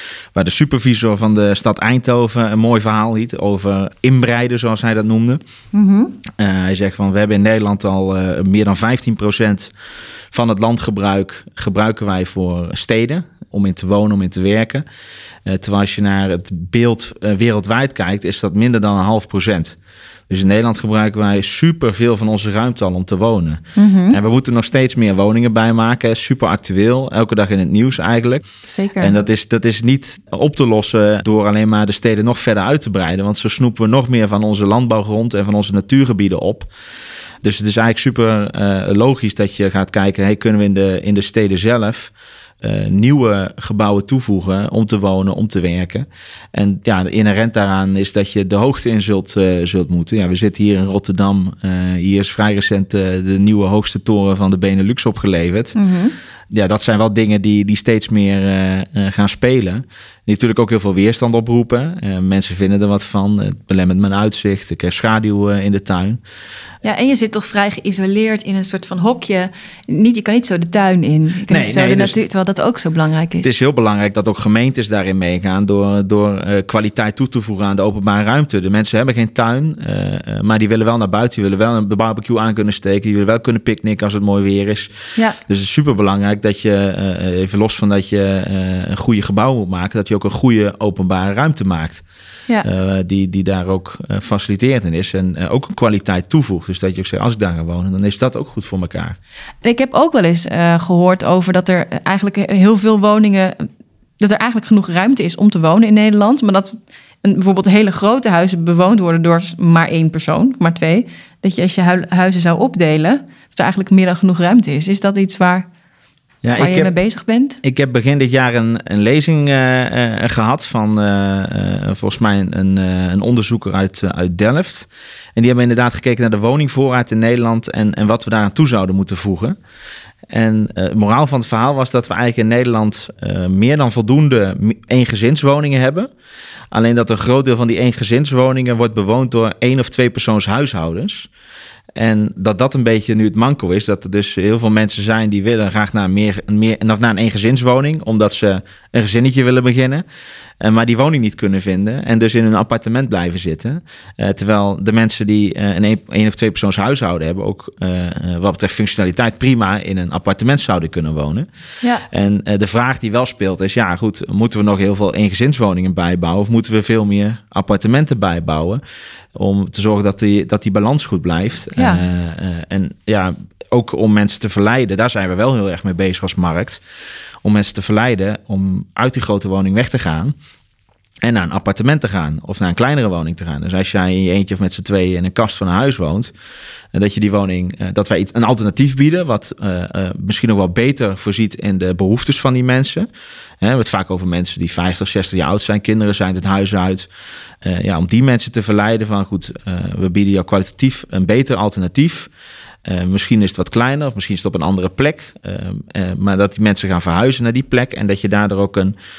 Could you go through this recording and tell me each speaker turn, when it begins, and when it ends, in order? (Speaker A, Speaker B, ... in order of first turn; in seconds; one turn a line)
Speaker A: 0.3-5.4
Speaker B: 5.7-6.2
Speaker A: 6.3-9.7
Speaker A: 10.3-14.8
Speaker A: 15.5-19.8
Speaker A: 20.3-28.4
Speaker B: 23.8-24.2
Speaker B: 28.7-29.2
Speaker A: 29.0-36.7
Speaker A: 37.4-55.8
Speaker B: 55.8-56.1
Speaker A: 56.5-66.2
Speaker B: 66.8-73.5
Speaker A: 71.5-72.2
Speaker A: 73.4-84.9
Speaker A: 85.5-92.0
Speaker A: 92.6-99.2
Speaker B: 99.6-103.7
Speaker B: 104.2-115.7
Speaker A: 116.4-116.9
Speaker B: 116.6-117.6
Speaker A: 117.6-129.6
Speaker A: 130.3-136.1
Speaker A: 136.7-141.3
Speaker A: 142.0-150.1
Speaker A: 150.6-161.5
Speaker A: 162.1-168.8
Speaker A: 169.3-176.8
Speaker B: 171.8-172.0
Speaker A: 177.4-180.3
Speaker A: 181.2-186.3
Speaker A: 186.9-193.1
Speaker A: 193.6-197.1
Speaker A: 197.6-202.3
Speaker A: 202.8-209.0